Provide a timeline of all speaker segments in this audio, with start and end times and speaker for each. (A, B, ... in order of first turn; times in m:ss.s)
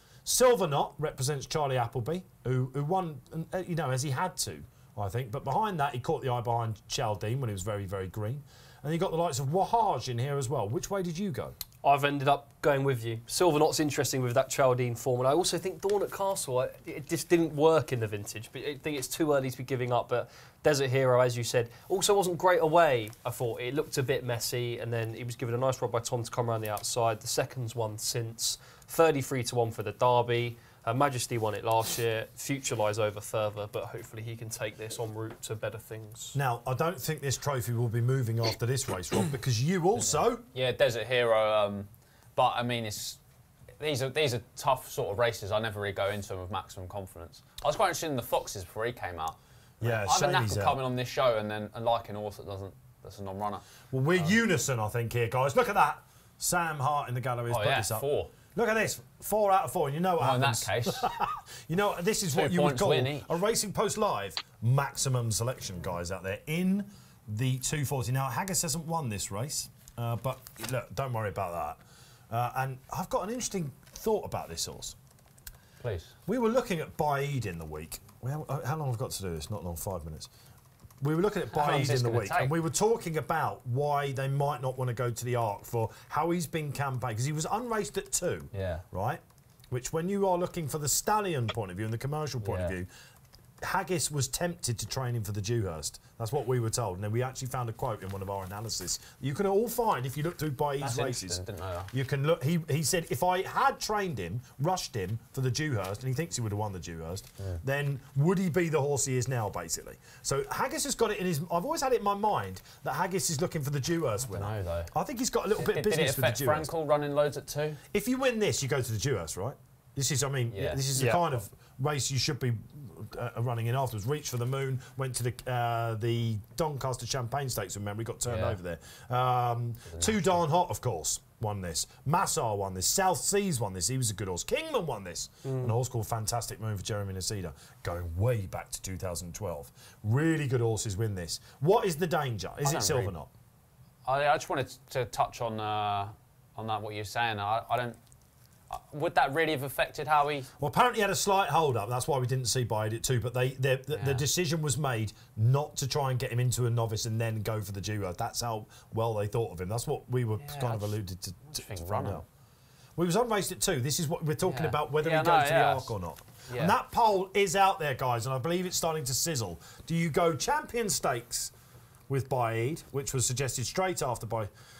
0:00.2-0:11.6 A
0:11.8-0:36.4 B
0:36.3-0:40.4 A
0:40.0-0:43.2 C
0:43.8-0:54.4 C
0:49.8-0:50.8 A
0:53.9-1:15.0 A
0:57.5-0:58.3 C
1:00.2-1:01.1 C
1:02.3-1:03.3 C
1:15.8-1:16.1 C
1:16.3-1:20.3 A
1:21.0-1:32.9 A
1:21.5-1:22.5 C
1:28.5-1:28.8 C
1:32.4-1:32.7 C
1:33.6-1:56.7 A
1:40.8-1:41.9 C
1:54.3-1:54.9 C
1:55.6-1:57.8 C
1:57.9-2:23.3 A
2:00.5-2:00.8 C
2:00.9-2:01.2 B
2:08.3-2:08.6 C
2:09.9-2:10.4 C
2:15.4-2:15.7 B
2:22.6-2:23.1 C
2:24.0-2:28.0 C
2:28.7-2:30.5 C
2:30.6-2:42.2 A
2:33.9-2:34.2 C
2:40.4-2:41.0 C
2:41.5-2:42.2 C
2:43.0-2:51.5 A
2:44.4-2:45.9 C
2:46.5-2:46.7 C
2:52.1-2:54.5 A